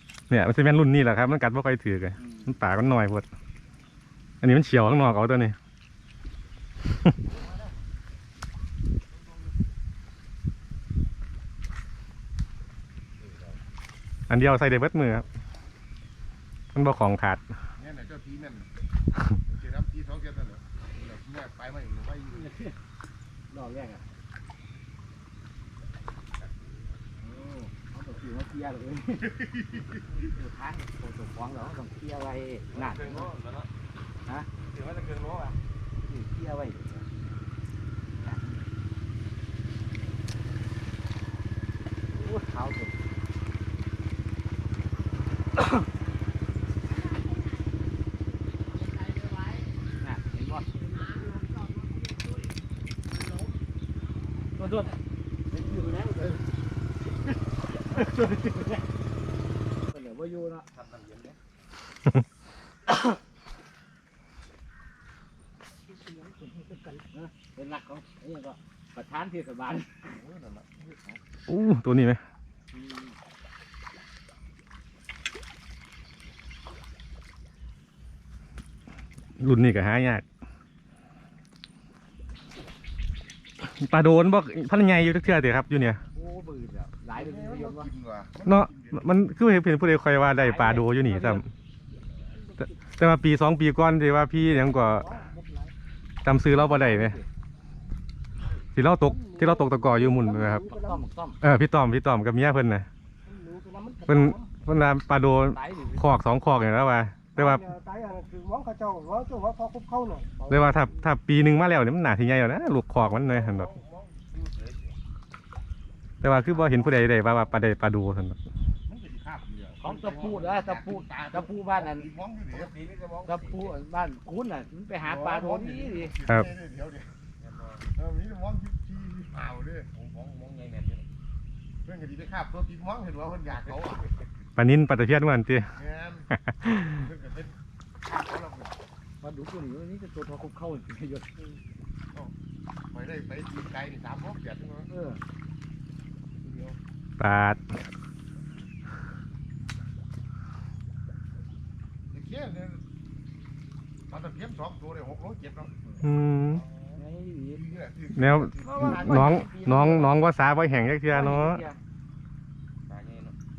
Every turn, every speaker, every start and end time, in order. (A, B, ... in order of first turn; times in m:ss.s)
0:00.3-0:03.3 A
0:02.2-0:02.6 B
0:04.4-0:05.6 A
0:07.3-0:07.8 C
0:09.1-0:09.5 D
0:13.2-0:13.6 C
0:14.3-0:15.3 A
0:16.7-0:17.4 A
0:17.8-0:18.7 D
0:19.4-0:22.5 D
0:22.3-0:22.8 B
0:23.5-0:24.1 B
0:26.3-0:27.0 C
0:27.2-0:29.4 B
0:29.2-0:30.1 D
0:30.0-0:33.3 B
0:32.7-0:33.7 C
0:34.7-0:35.6 C
0:36.1-0:37.1 B
0:38.2-0:38.6 B
0:38.2-0:38.7 C
0:42.1-0:43.0 B
0:48.9-0:49.6 C
0:50.0-0:50.7 B
0:50.9-0:52.6 C
0:53.1-0:53.5 C
0:54.6-0:55.0 B
0:55.5-0:56.4 C
0:57.6-0:58.2 C
0:57.9-0:58.8 B
0:59.9-1:00.7 B
1:00.7-1:01.4 C
1:05.9-1:07.0 E
1:07.1-1:10.1 B
1:10.1-1:11.2 D
1:11.5-1:12.2 A
1:12.7-1:13.2 B
1:19.4-1:20.2 A
1:23.6-1:26.0 A
1:26.1-1:27.9 B
1:27.1-1:29.2 D
1:28.5-1:31.5 A
1:30.3-1:31.4 B
1:32.3-1:32.8 E
1:32.6-1:35.1 A
1:34.4-1:35.7 E
1:36.2-1:37.2 A
1:36.5-1:37.3 B
1:38.8-1:40.6 A
1:39.0-1:41.0 E
1:40.6-1:41.4 B
1:41.4-1:42.9 A
1:43.2-1:44.5 E
1:44.1-1:47.7 A
1:45.5-1:46.0 B
1:47.4-1:50.3 E
1:50.4-1:50.9 B
1:50.5-1:53.7 A
1:53.3-1:53.9 D
1:53.5-1:55.0 C
1:56.2-1:58.4 A
1:56.6-1:57.3 C
1:58.9-2:00.8 D
1:59.1-2:01.4 C
1:59.8-2:02.1 B
2:01.4-2:02.8 D
2:02.5-2:03.8 C
2:03.2-2:06.1 B
2:05.0-2:07.1 D
2:07.4-2:07.9 C
2:07.9-2:09.9 D
2:09.9-2:11.1 C
2:11.8-2:14.2 D
2:14.6-2:15.7 A
2:15.7-2:18.8 D
2:16.5-2:17.0 A
2:19.2-2:21.3 B
2:22.9-2:24.9 D
2:24.9-2:25.2 B
2:26.4-2:26.8 D
2:27.2-2:27.6 A
2:32.1-2:32.8 D
2:34.1-2:35.8 D
2:36.0-2:36.6 A
2:36.4-2:37.0 D
2:37.0-2:37.7 B
2:37.5-2:39.2 D
2:38.1-2:41.6 A
2:38.6-2:40.2 B
2:41.1-2:41.8 B
2:42.9-2:43.4 C